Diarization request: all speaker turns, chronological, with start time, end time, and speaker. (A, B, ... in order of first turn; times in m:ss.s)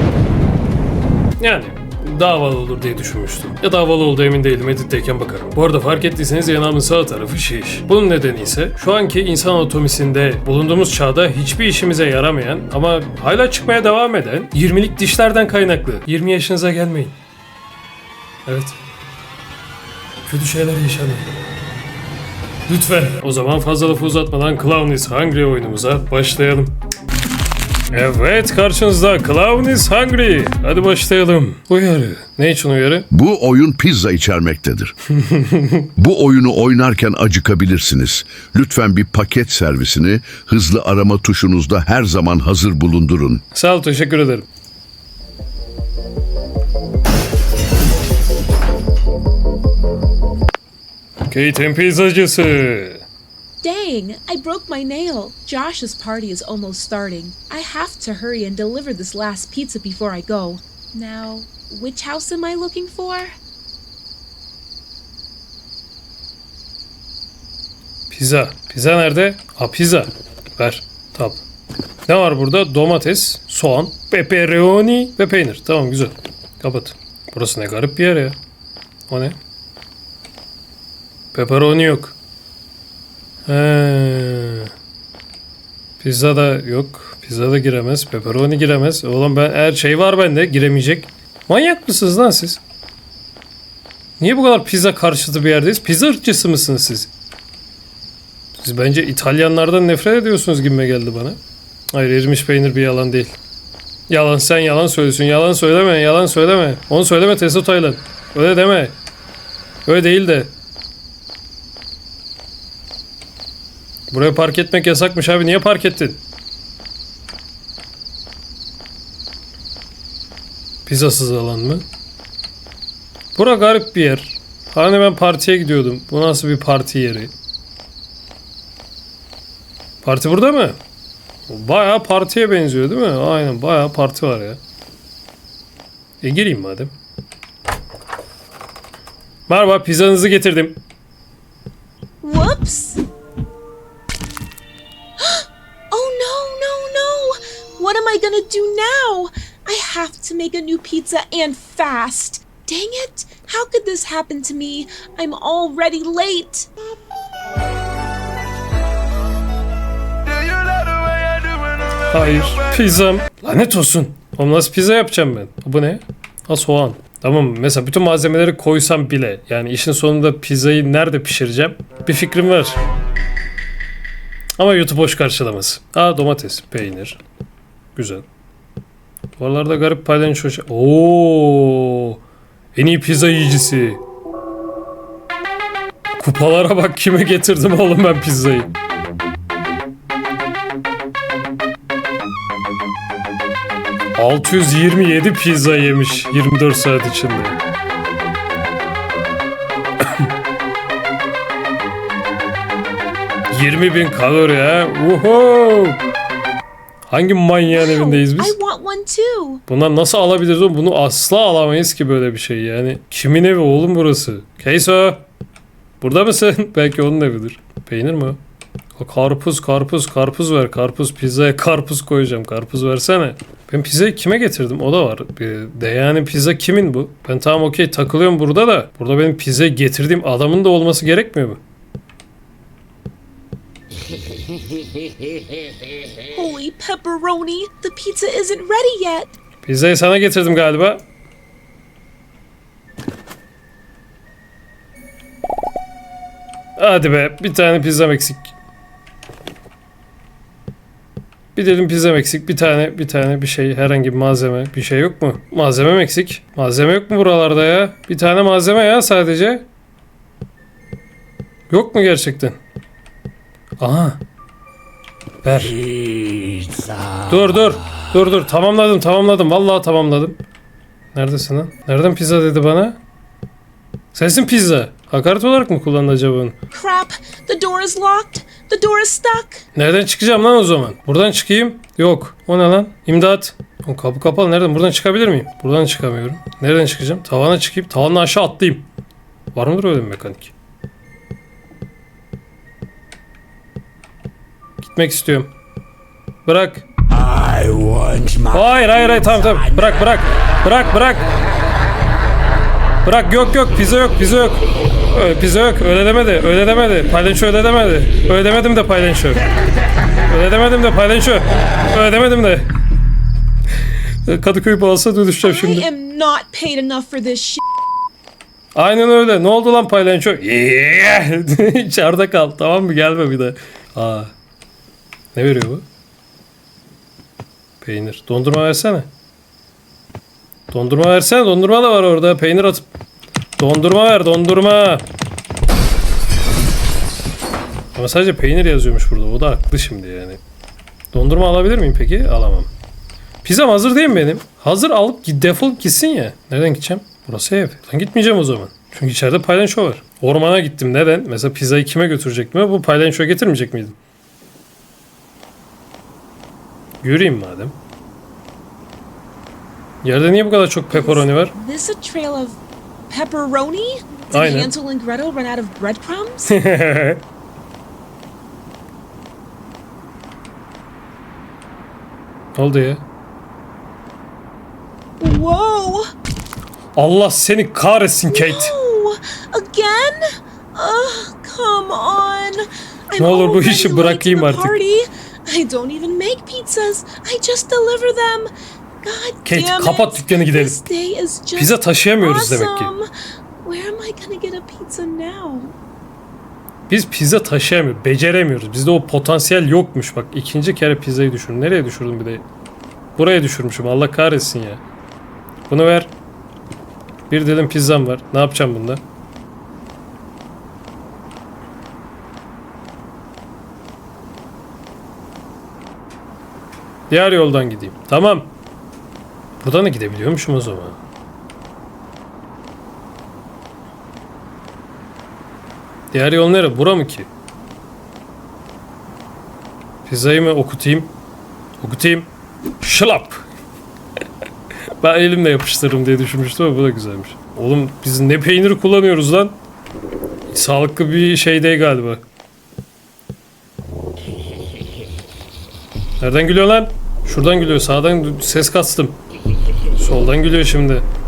0:01.4-0:17.2 A
0:18.4-0:18.8 A
0:20.2-0:21.3 A
0:22.7-0:26.8 A
0:27.9-0:33.1 A
0:33.1-0:34.9 B
0:35.1-0:35.9 A
0:36.0-0:43.4 B
0:43.5-0:44.4 A
0:51.2-0:53.0 A
0:53.6-1:03.3 C
1:08.1-1:11.4 A
1:12.1-1:18.4 A
1:19.1-1:19.4 A
1:21.3-1:22.1 A
1:23.5-1:24.7 A
1:26.0-1:32.6 A
1:34.2-1:37.1 A
1:38.6-1:41.4 A
1:41.9-1:43.4 A
1:44.1-1:48.9 A
1:49.8-1:50.5 A
1:54.1-1:56.2 A
2:00.8-2:01.8 A
2:03.4-2:07.3 A
2:10.0-2:10.8 A
2:11.5-2:14.6 A
2:16.2-2:16.9 A
2:19.5-2:20.8 A
2:22.2-2:23.0 C
2:25.2-2:36.7 C
2:42.1-2:52.8 A
2:54.6-2:57.2 A
2:57.9-2:58.2 A
2:59.4-3:02.2 A
3:02.7-3:04.0 A
3:06.2-3:08.7 A
3:14.2-3:17.6 A
3:23.5-3:26.0 A
3:27.1-3:28.6 A
3:27.7-3:29.6 C
3:29.7-3:35.2 A
3:36.0-3:38.4 A
3:39.0-3:51.6 A
3:56.3-3:59.3 C
3:59.6-4:01.0 A
4:06.8-4:08.5 A
4:11.5-4:19.6 A
4:21.7-4:22.6 A
4:23.8-4:24.2 A
4:25.4-4:25.8 A
4:27.2-4:30.4 A
4:31.1-4:33.0 A
4:34.1-4:36.5 A
4:36.7-4:39.6 C
4:39.7-4:48.9 A
4:49.5-4:50.5 A
4:54.8-4:55.5 A
4:56.4-4:56.8 A
4:58.4-5:01.3 A
5:03.0-5:09.5 A
5:10.3-5:12.7 A
5:14.2-5:15.8 A
5:15.4-5:17.6 C
5:18.7-5:24.3 A
5:25.3-5:25.8 A
5:27.8-5:29.1 A
5:30.7-5:32.9 A
5:33.6-5:35.0 A
5:37.9-5:40.4 A
5:41.1-5:42.7 A
5:43.4-5:54.0 A
5:57.0-5:57.7 A
6:00.0-6:01.5 A
6:00.9-6:06.6 C
6:04.3-6:04.7 A
6:06.5-6:07.2 A
6:12.6-6:13.0 A
6:15.2-6:16.0 C
6:17.0-6:18.7 A
6:18.3-6:28.5 C
6:23.2-6:24.8 A
6:29.0-6:33.0 C
6:29.4-6:30.8 A
6:31.6-6:32.9 A
6:33.6-6:35.7 C
6:36.9-6:42.4 A
6:43.2-6:44.8 A
6:45.7-6:46.1 A
6:47.3-6:49.0 A
6:57.1-6:58.5 A
6:59.6-7:01.0 A
7:06.1-7:07.3 A
7:10.0-7:11.1 A
7:11.8-7:12.3 A
7:12.8-7:13.4 A
7:15.0-7:19.6 A
7:20.5-7:22.2 A
7:26.2-7:29.2 A
7:29.9-7:31.0 A